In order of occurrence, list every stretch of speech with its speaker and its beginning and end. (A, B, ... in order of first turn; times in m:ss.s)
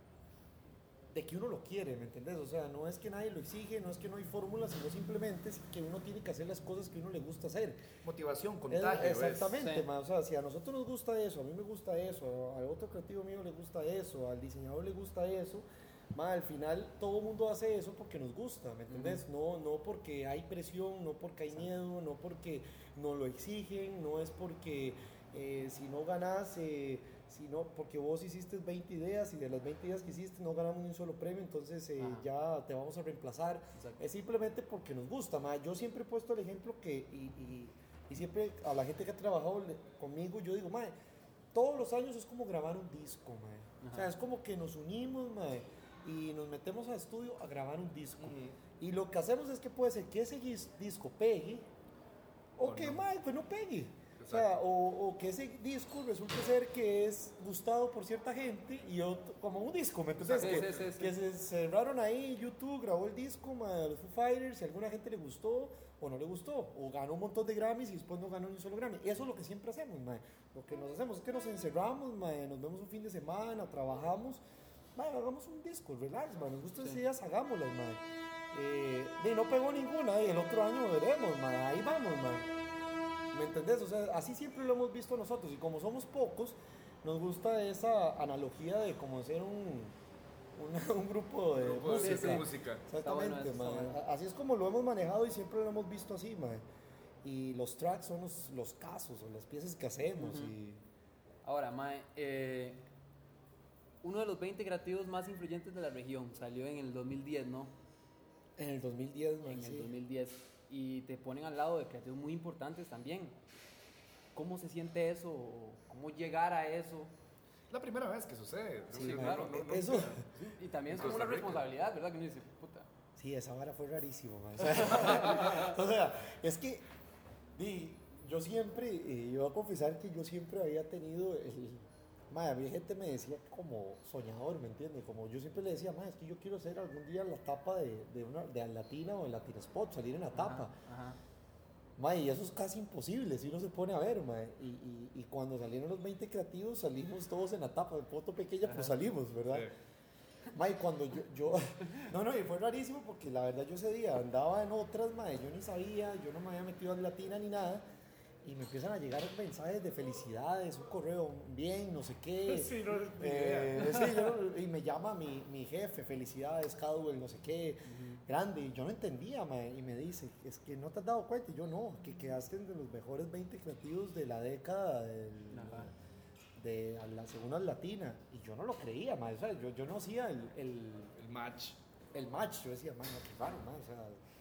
0:01.1-0:07.8 A
0:08.0-0:09.6 B
0:08.7-0:40.9 A
0:09.6-0:09.9 C
0:18.9-0:19.2 C
0:32.0-0:32.3 C
0:41.5-0:51.7 A
0:43.8-0:44.1 C
0:48.2-0:48.6 B
0:52.6-1:14.4 A
0:52.6-0:53.0 B
0:54.2-0:54.5 B
1:00.2-1:00.7 B
1:00.3-1:01.1 C
1:15.0-1:18.0 A
1:18.5-1:22.5 A
1:23.3-1:29.9 A
1:30.6-1:36.6 A
1:31.6-1:32.8 B
1:32.0-1:32.5 C
1:33.0-1:34.0 C
1:37.2-1:40.8 A
1:40.2-1:40.6 C
1:41.4-1:42.8 C
1:44.0-1:47.7 C
1:48.6-1:49.9 A
1:49.5-1:53.4 C
1:54.4-1:57.1 C
1:57.7-2:00.3 B
1:58.9-2:00.2 A
1:59.0-1:59.6 C
2:00.4-2:02.9 C
2:00.9-2:01.6 B
2:03.2-2:06.9 A
2:04.9-2:05.6 C
2:07.6-2:20.8 A
2:20.4-2:21.2 C
2:22.0-2:29.7 A
2:30.5-2:37.8 A
2:38.4-2:55.9 A
2:42.4-2:44.1 B
2:47.9-2:48.2 C
2:55.5-2:55.9 C
2:56.6-3:01.1 A
3:01.2-3:01.8 B
3:02.1-3:04.2 A